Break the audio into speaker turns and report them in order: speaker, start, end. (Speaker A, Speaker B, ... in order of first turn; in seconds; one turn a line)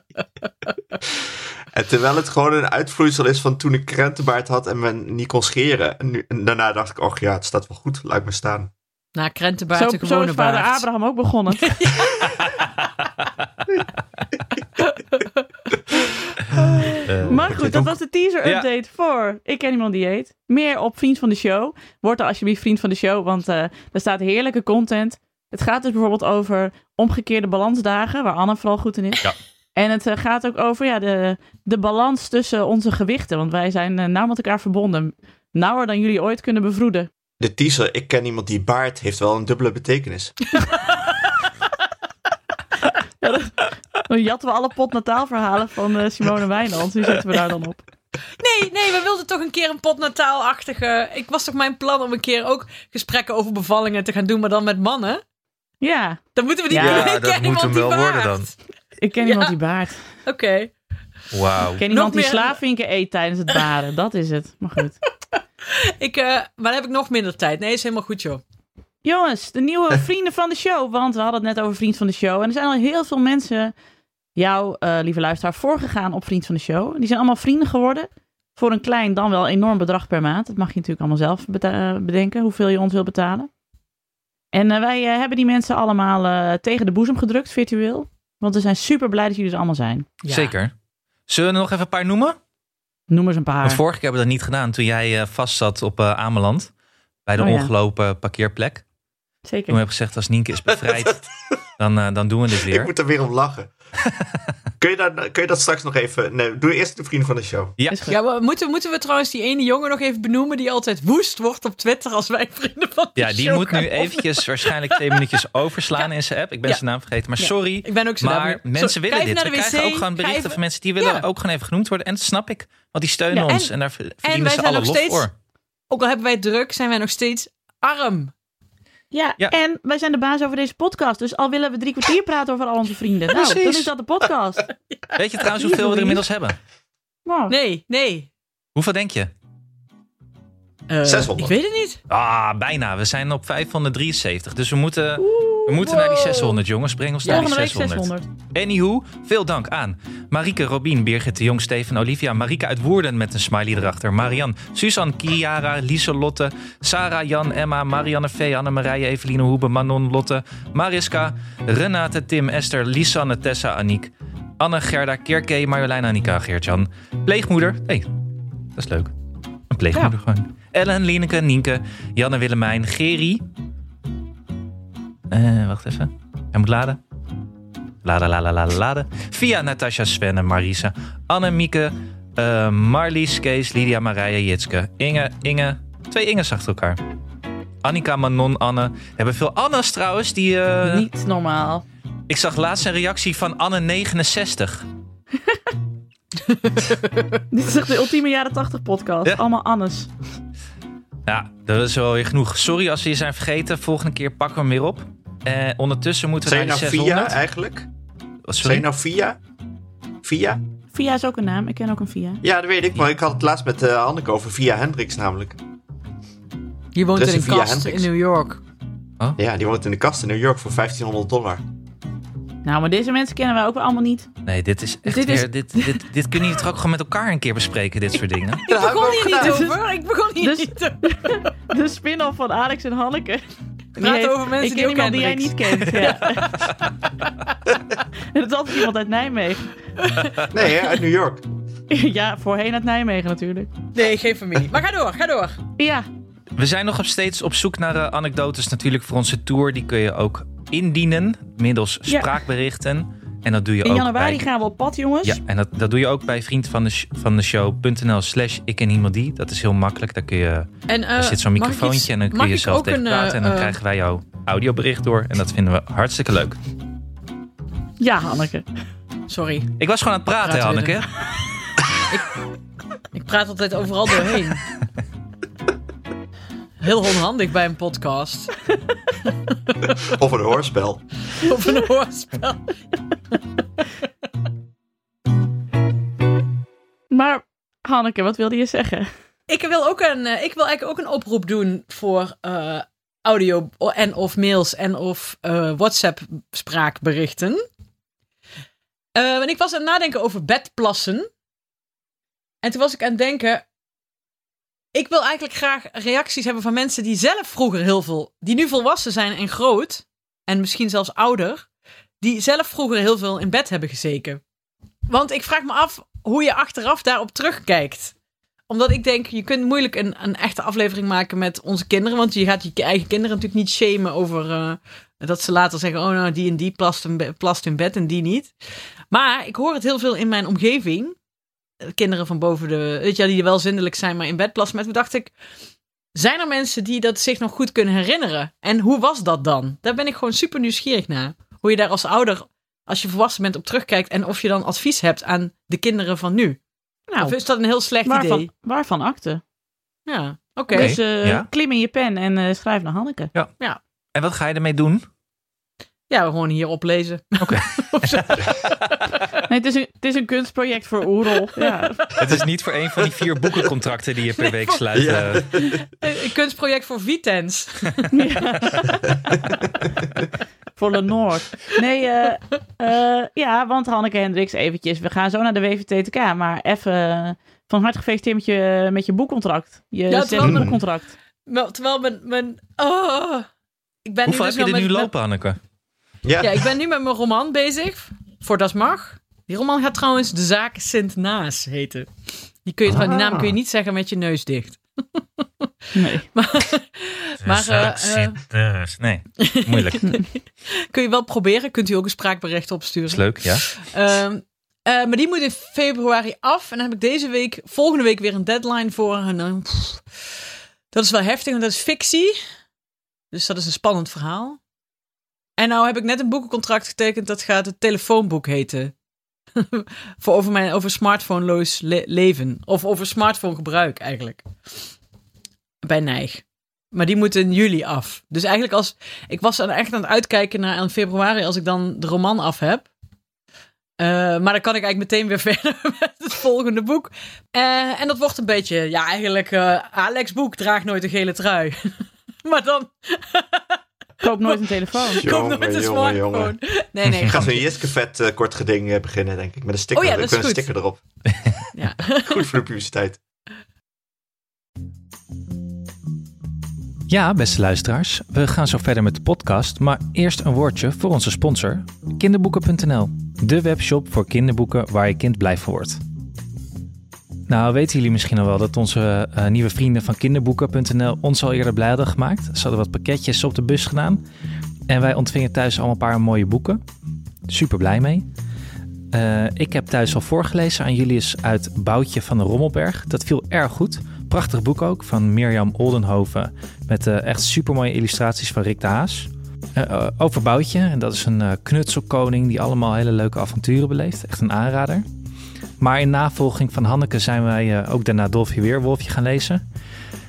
Speaker A: 1.1-8.7
Speaker B: 9.2-10.9
Speaker C: 9.7-11.9
Speaker B: 11.5-12.5
Speaker D: 12.2-13.0
Speaker B: 14.8-15.4
Speaker D: 17.0-18.7
Speaker C: 17.2-37.1
Speaker A: 37.4-40.3
Speaker C: 43.2-47.8
Speaker B: 48.4-55.2
Speaker C: 55.8-57.0
Speaker B: 56.3-58.6
Speaker D: 56.8-58.5
Speaker C: 59.0-60.0
Speaker B: 59.2-59.5
Speaker B: 60.3-60.7
Speaker D: 61.3-61.8
Speaker C: 61.8-65.0
Speaker B: 61.8-62.6
Speaker B: 65.3-68.4
Speaker C: 69.0-73.7
Speaker C: 74.3-83.5
Speaker C: 84.5-90.1
Speaker B: 90.2-90.5
Speaker D: 90.3-90.7
Speaker D: 91.3-92.4
Speaker C: 93.1-93.8
Speaker D: 93.6-96.7
Speaker D: 97.3-98.8
Speaker C: 97.4-97.7
Speaker C: 99.4-99.8
Speaker D: 99.7-101.2
Speaker A: 100.8-101.1
Speaker D: 101.8-102.9
Speaker A: 102.7-103.7
Speaker D: 104.0-104.4
Speaker A: 104.8-107.8
Speaker D: 107.8-108.1
Speaker C: 107.9-108.2
Speaker B: 108.1-115.3
Speaker D: 113.2-125.3
Speaker B: 117.4-121.2
Speaker B: 123.5-123.7
Speaker B: 124.2-125.3
Speaker B: 125.9-128.3
Speaker C: 129.1-134.7
Speaker D: 133.3-133.9
Speaker D: 135.2-136.6
Speaker C: 135.6-136.2
Speaker C: 137.3-137.6
Speaker B: 137.5-138.3
Speaker D: 138.8-139.3
Speaker B: 140.9-142.0
Speaker A: 141.0-141.6
Speaker D: 142.1-168.1
Speaker B: 145.2-146.6
Speaker B: 147.2-147.5
Speaker C: 147.3-148.3
Speaker D: 168.8-169.1
Speaker D: 169.7-173.4
Speaker D: 175.3-177.0
Speaker D: 178.0-187.0
Speaker D: 187.8-191.1
Speaker C: 190.8-191.8
Speaker D: 192.3-194.8
Speaker B: 196.4-197.4
Speaker C: 197.5-200.1
Speaker D: 201.3-207.4
Speaker A: 206.4-207.9
Speaker D: 208.4-208.8
Speaker A: 208.6-209.4
Speaker A: 210.2-210.6
Speaker C: 210.9-212.4
Speaker A: 212.4-215.6
Speaker B: 216.9-218.6
Speaker A: 217.2-218.1
Speaker A: 219.4-221.6
Speaker C: 222.7-224.3
Speaker D: 224.4-228.7
Speaker C: 225.1-226.0
Speaker B: 228.7-231.5
Speaker A: 228.7-229.7
Speaker C: 229.3-229.8
Speaker C: 230.4-233.4
Speaker C: 234.0-236.7
Speaker B: 234.0-237.3
Speaker C: 238.3-239.7
Speaker B: 240.0-240.4
Speaker A: 240.5-241.4
Speaker C: 241.9-243.7
Speaker B: 243.9-245.6
Speaker C: 245.8-246.1
Speaker D: 246.6-254.4
Speaker C: 253.8-255.4
Speaker D: 255.2-266.6
Speaker B: 260.9-263.8
Speaker C: 268.0-268.6
Speaker B: 269.3-269.7
Speaker D: 269.8-271.1
Speaker B: 270.4-271.0
Speaker B: 272.1-272.4
Speaker B: 273.1-274.7
Speaker B: 276.8-278.6
Speaker A: 280.0-281.0
Speaker B: 281.3-282.7
Speaker C: 287.1-289.1
Speaker B: 289.5-297.6
Speaker B: 299.2-301.3
Speaker B: 302.6-303.6
Speaker B: 304.9-311.7
Speaker B: 312.2-314.4
Speaker B: 315.1-318.1
Speaker B: 318.7-328.5
Speaker B: 329.1-331.1
Speaker B: 331.8-335.3
Speaker B: 336.1-346.6
Speaker B: 347.1-348.5
Speaker C: 348.1-349.4
Speaker B: 350.1-350.9
Speaker C: 350.7-353.3
Speaker D: 350.7-351.5
Speaker D: 354.1-355.1
Speaker B: 356.1-358.8
Speaker D: 357.4-358.7
Speaker C: 359.4-362.1
Speaker B: 361.6-361.9
Speaker D: 362.2-365.5
Speaker A: 364.9-365.8
Speaker B: 365.6-368.2
Speaker C: 368.1-369.4
Speaker A: 369.3-369.9
Speaker C: 370.8-381.1
Speaker B: 380.1-380.8
Speaker A: 380.4-380.8
Speaker B: 381.5-383.5
Speaker B: 384.1-385.1
Speaker D: 384.3-385.6
Speaker A: 386.2-386.7
Speaker B: 386.4-392.1
Speaker B: 392.6-395.7
Speaker A: 392.9-393.6
Speaker C: 395.9-396.2
Speaker B: 396.2-398.4
Speaker D: 397.5-400.1
Speaker B: 399.4-410.3
Speaker D: 403.1-403.6
Speaker B: 410.9-412.4
Speaker B: 413.3-414.6
Speaker B: 415.6-418.9
Speaker B: 419.6-424.9
Speaker B: 425.8-432.9
Speaker B: 434.0-447.7
Speaker C: 444.2-445.2
Speaker A: 445.2-446.6
Speaker A: 447.2-451.0
Speaker B: 449.9-450.7
Speaker B: 451.8-452.6
Speaker A: 452.2-453.2
Speaker D: 457.1-466.0
Speaker D: 467.5-474.2
Speaker D: 474.9-476.8
Speaker D: 477.5-478.3
Speaker D: 479.1-495.1
Speaker D: 495.8-499.6